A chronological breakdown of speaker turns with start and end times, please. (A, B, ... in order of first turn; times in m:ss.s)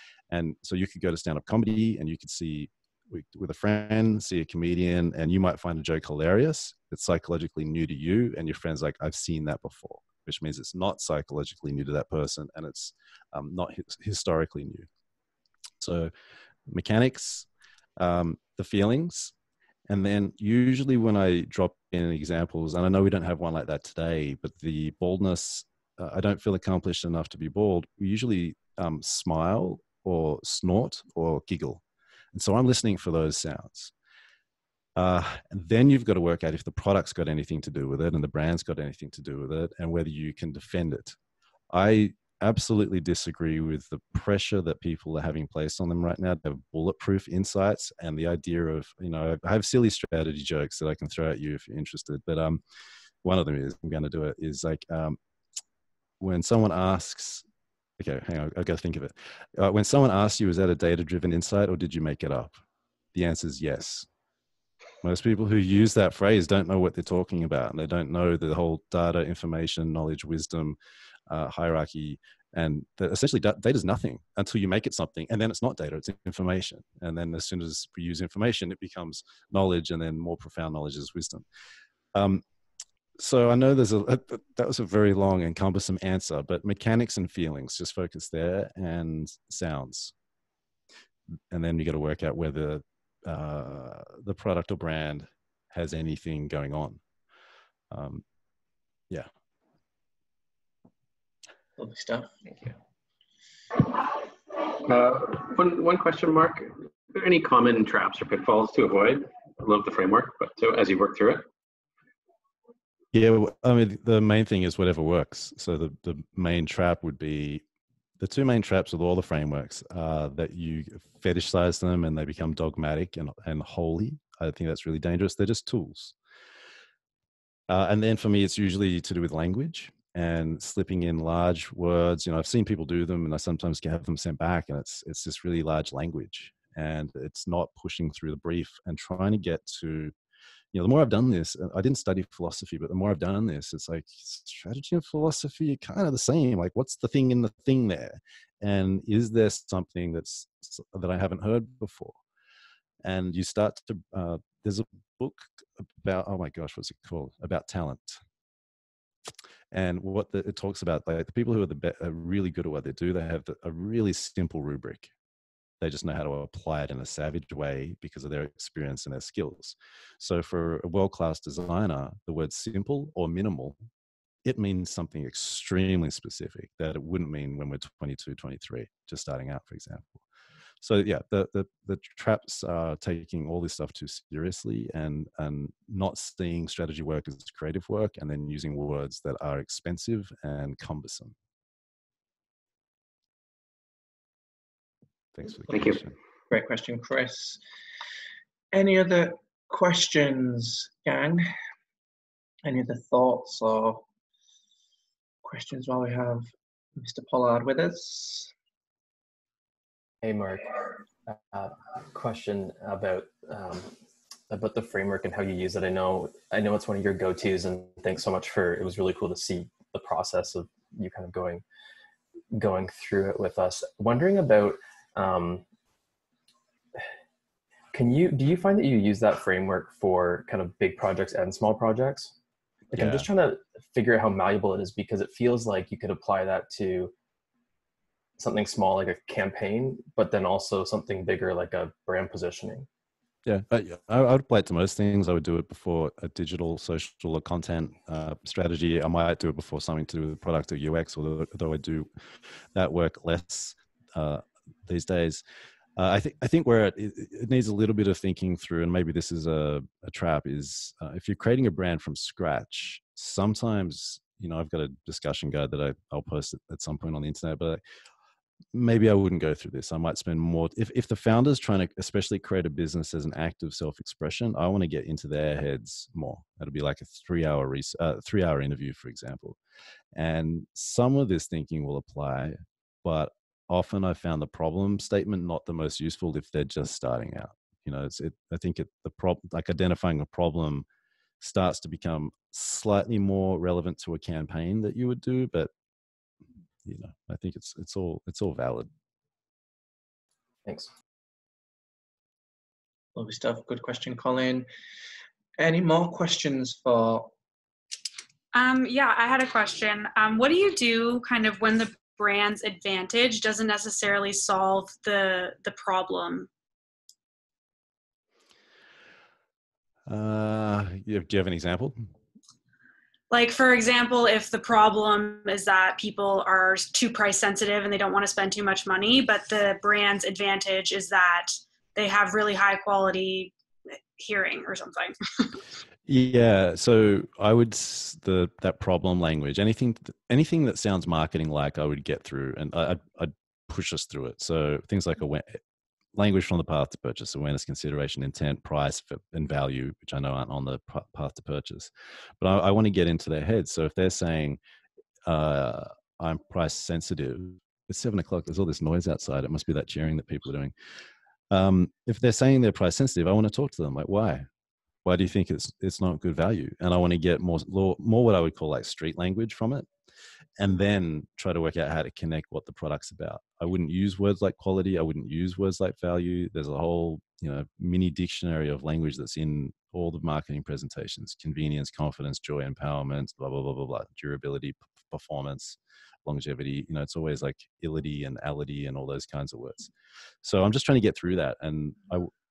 0:00.3-0:14.9 A
0:15.8-0:16.1 A
0:16.7-0:17.5 A
0:18.0-0:19.3 A
0:19.9-0:31.8 A
0:32.3-0:33.9 A
0:35.0-0:41.2 A
0:41.7-0:52.6 A
0:53.2-0:55.2 A
0:56.2-0:57.4 A
0:58.0-1:02.6 A
1:03.2-1:04.1 A
1:05.0-1:10.8 A
1:11.3-1:21.4 A
1:22.1-1:22.4 A
1:23.2-1:30.1 A
1:31.5-1:37.0 A
1:37.9-1:38.2 A
1:41.8-1:42.7 B
1:44.6-1:51.5 C
1:53.1-1:57.6 A
1:58.2-2:06.2 A
2:07.7-2:20.1 A
2:20.7-2:32.2 A
2:33.0-2:38.2 A
2:39.7-2:45.1 A
2:45.8-2:53.8 A
2:54.4-3:00.2 A
3:00.8-3:11.3 A
3:15.4-3:16.1 A
3:15.7-3:16.0 C
3:16.5-3:17.6 B
3:18.7-3:21.5 B
3:22.6-3:24.0 B
3:25.4-3:28.5 B
3:30.2-3:33.9 D
3:34.5-3:41.6 D
3:42.5-3:45.6 D
3:47.9-3:52.4 D
3:52.9-3:57.1 D
3:52.9-3:53.3 A
3:58.4-4:02.9 D
4:03.5-4:12.1 A
4:12.7-4:15.4 A
4:16.0-4:27.8 A
4:28.7-4:39.6 A
4:40.2-4:50.9 A
4:51.4-4:55.7 A
4:56.8-4:58.9 A
5:00.6-5:00.9 D
5:03.2-5:04.7 B
5:05.6-5:07.3 B
5:08.5-5:16.5 E
5:20.1-5:22.0 A
5:23.3-5:33.5 E
5:34.2-5:35.6 E
5:36.1-5:45.6 A
5:46.2-5:54.6 A
5:55.3-6:00.7 A
6:01.5-6:04.5 A
6:05.0-6:09.9 A
6:10.6-6:29.9 A
6:30.4-6:32.3 A